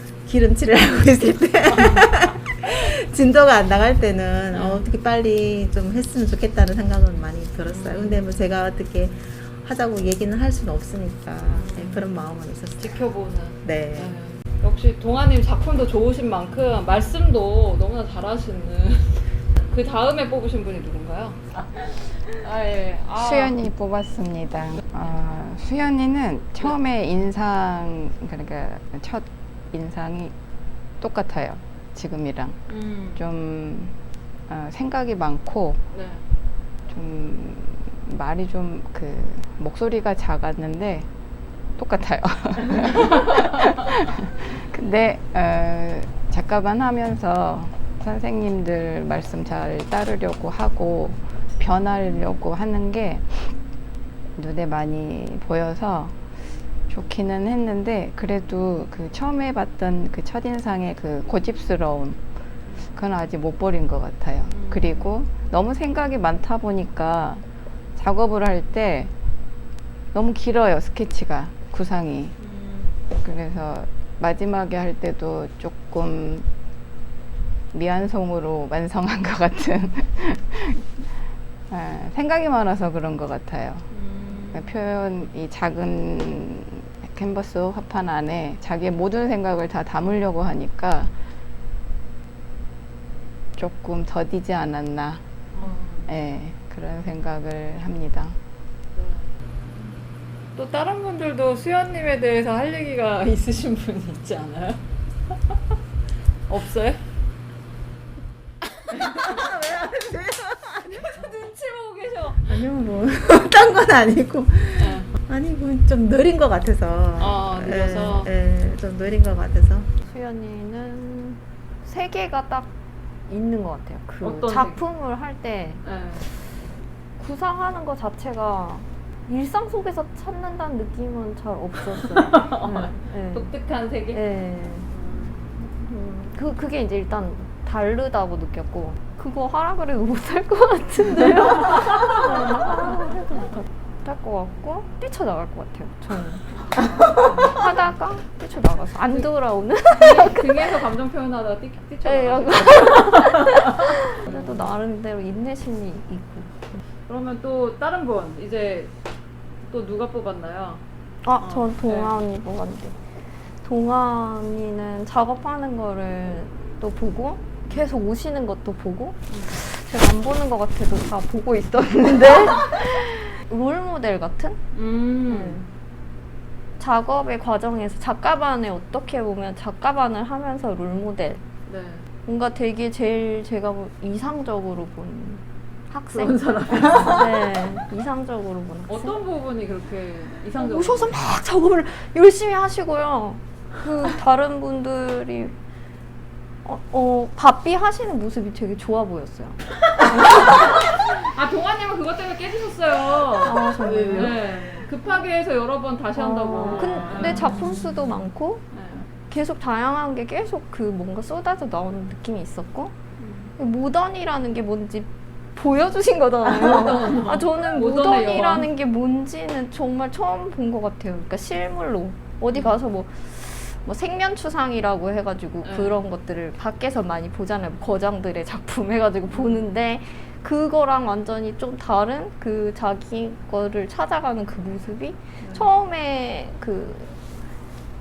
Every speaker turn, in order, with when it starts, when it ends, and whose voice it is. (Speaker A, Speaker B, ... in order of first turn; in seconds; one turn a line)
Speaker A: 0.2-13.0
Speaker B: 7.7-8.2
Speaker B: 11.5-12.1
Speaker B: 12.8-23.5
Speaker A: 13.6-14.2
Speaker C: 23.1-30.3
Speaker C: 31.0-32.5
Speaker B: 32.7-33.2
Speaker C: 33.1-33.9
Speaker C: 34.5-35.8
Speaker B: 35.9-36.2
Speaker C: 36.9-41.1
Speaker C: 41.8-53.5
Speaker C: 54.4-56.1
Speaker C: 56.9-62.2
Speaker C: 62.9-67.4
Speaker B: 64.5-65.0
Speaker C: 68.0-69.1
Speaker C: 70.1-72.3
Speaker C: 73.2-76.5
Speaker C: 77.7-80.8
Speaker C: 81.7-83.8
Speaker B: 83.9-84.7
Speaker C: 84.5-91.1
Speaker C: 93.5-95.2
Speaker B: 95.5-96.2
Speaker C: 96.0-98.3
Speaker B: 98.9-99.2
Speaker B: 100.5-104.8
Speaker B: 106.5-107.0
Speaker A: 108.9-111.3
Speaker B: 110.9-112.6
Speaker A: 112.5-119.9
Speaker B: 114.8-115.1
Speaker B: 117.2-118.3
Speaker D: 120.0-122.7
Speaker D: 123.3-125.8
Speaker B: 124.2-124.8
Speaker B: 125.8-126.3
Speaker D: 127.2-133.5
Speaker B: 132.2-134.2
Speaker D: 134.1-134.9
Speaker B: 134.9-135.3
Speaker D: 135.8-146.8
Speaker D: 147.3-150.8
Speaker B: 149.9-154.7
Speaker D: 152.0-156.7
Speaker B: 157.1-158.9
Speaker B: 159.7-160.8
Speaker D: 161.2-163.0
Speaker B: 161.4-162.2
Speaker D: 163.6-174.6
Speaker B: 174.7-175.6
Speaker D: 175.3-175.6
Speaker D: 176.8-181.4
Speaker B: 181.7-182.1
Speaker D: 182.2-189.2
Speaker B: 186.1-187.2
Speaker B: 188.9-191.2
Speaker D: 190.6-195.5
Speaker D: 196.6-200.6
Speaker B: 200.1-207.7
Speaker D: 203.4-204.4
Speaker D: 206.2-208.6
Speaker B: 208.7-209.1
Speaker D: 209.3-212.9
Speaker B: 213.2-213.5
Speaker D: 213.6-237.2
Speaker B: 216.4-218.7
Speaker B: 225.7-225.9
Speaker B: 229.3-229.7
Speaker B: 235.4-235.7